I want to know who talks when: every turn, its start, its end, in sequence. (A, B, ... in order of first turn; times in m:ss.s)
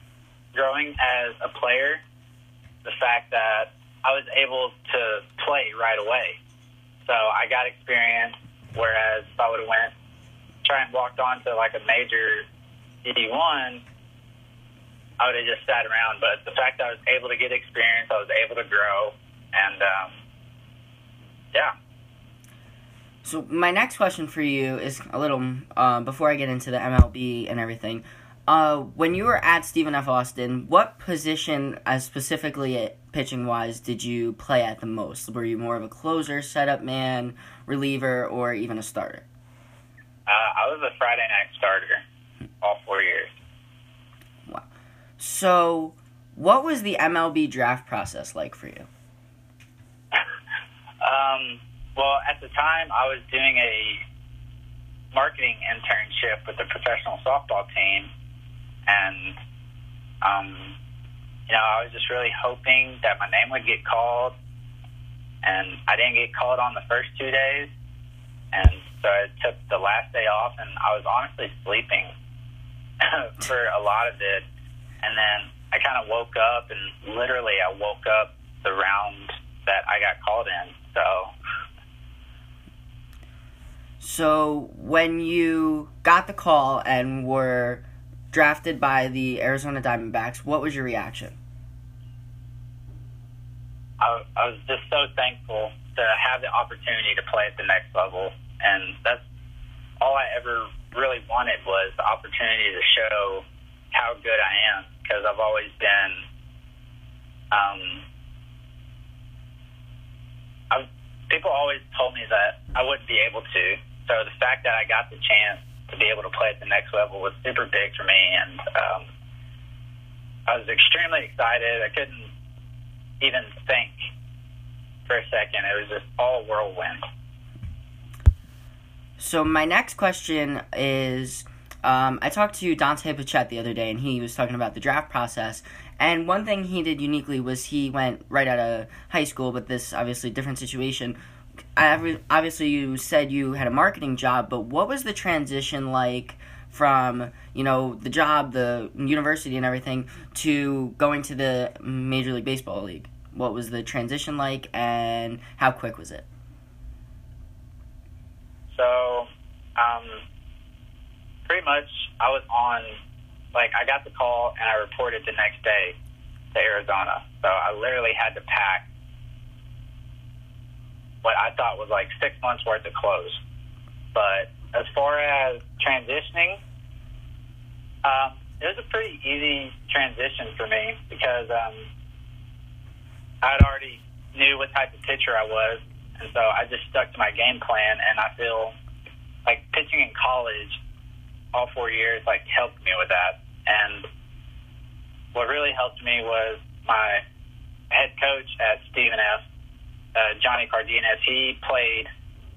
0:00.5-0:02.0 A
0:02.8-0:06.4 A
0:07.0-0:09.9 A
0:10.6-0:12.4 A
0:13.0-0:13.8 A
0:15.2-0:20.2 A
0:23.2-0:39.2 B
0:40.3-0:42.0 A
0:42.6-0:43.3 A
0:45.2-0:48.9 B
0:51.0-0:54.0 A
0:55.1-0:58.1 A
0:58.8-0:59.4 A
1:00.2-1:00.8 A
1:01.5-1:04.3 A
1:05.4-1:07.7 A
1:08.5-1:12.1 A
1:13.0-1:14.4 A
1:15.0-1:21.3 A
1:24.0-1:31.4 B
1:34.0-1:39.2 A
1:40.0-1:46.2 A
1:47.5-1:48.0 A
1:50.7-1:59.1 A
2:00.5-2:02.3 A
2:03.2-2:04.1 A
2:05.1-2:07.0 A
2:09.2-2:21.2 B
2:21.8-2:36.2 B
2:38.7-2:40.2 A
2:41.5-2:43.0 A
2:43.5-2:46.0 A
2:46.5-2:48.9 A
2:51.2-2:53.4 A
2:54.1-2:56.6 A
2:58.0-3:01.9 A
3:03.4-3:08.7 A
3:09.4-3:10.8 A
3:11.5-3:14.0 A
3:15.3-3:17.2 A
3:17.9-3:19.4 A
3:20.1-3:22.1 A